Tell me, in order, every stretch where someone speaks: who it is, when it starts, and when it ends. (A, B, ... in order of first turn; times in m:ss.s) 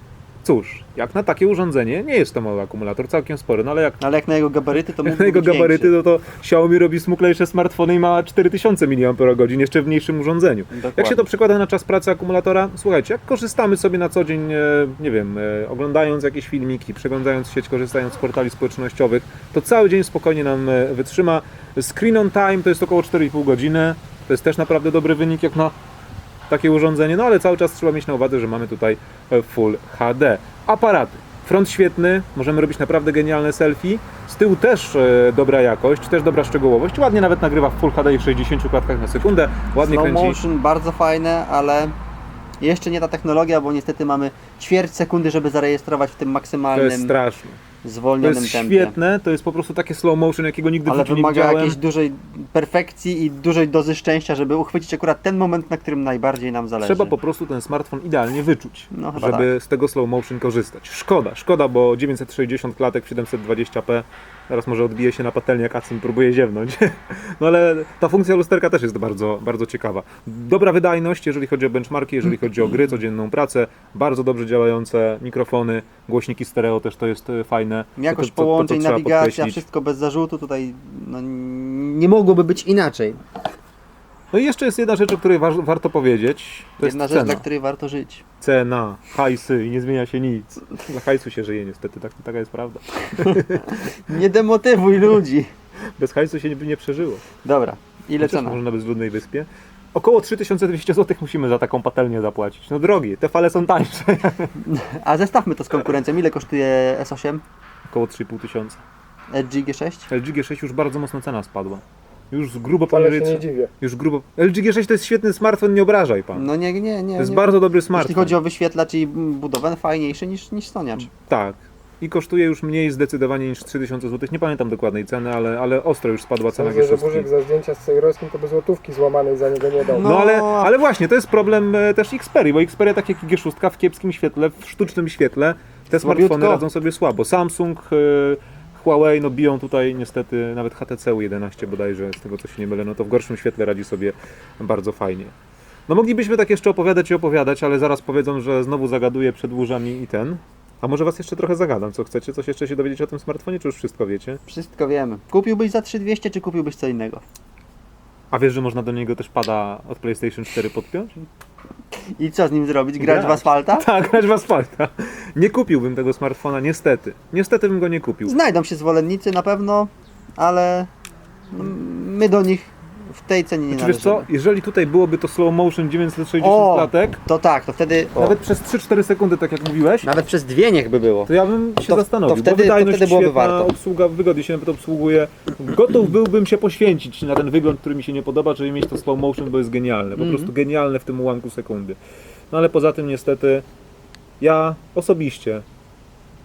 0:00.4-0:04.0 A
0:04.0-0:06.0 B
0:05.0-0:25.8 A
0:10.7-0:11.3 B
0:26.5-0:40.4 A
0:39.8-0:42.0 B
0:42.6-0:47.1 B
0:46.7-0:47.6 A
0:47.8-0:48.9 B
0:48.2-0:51.8 A
0:50.9-0:57.2 B
0:56.8-1:19.6 A
0:58.9-0:59.5 B
1:18.0-1:23.2 B
1:24.3-1:27.4 A
1:26.8-1:28.2 B
1:28.4-1:33.8 A
1:33.2-1:35.5 B
1:36.0-1:37.2 A
1:37.4-1:38.6 B
1:38.2-1:44.5 A
1:44.6-1:47.4 B
1:47.9-1:48.8 A
1:49.3-1:50.1 B
1:50.1-1:56.5 A
1:52.9-1:53.7 C
1:56.4-2:01.1 B
1:57.2-1:58.4 A
2:01.1-2:07.3 A
2:06.5-2:10.1 C
2:09.9-2:10.7 B
2:10.0-2:25.3 A
2:16.0-2:16.6 B
2:25.9-2:34.4 A
2:34.5-2:37.2 B
2:38.3-2:41.2 A
2:42.0-2:43.9 B
2:43.0-2:48.3 A
2:48.3-2:50.9 B
2:51.5-2:54.3 B
2:53.7-2:57.2 A
2:56.4-2:58.4 B
2:58.2-3:00.2 A
3:00.0-3:01.3 B
3:01.3-3:12.0 A
3:01.8-3:03.7 B
3:10.2-3:10.5 B
3:12.5-3:13.7 A
3:14.4-3:15.6 A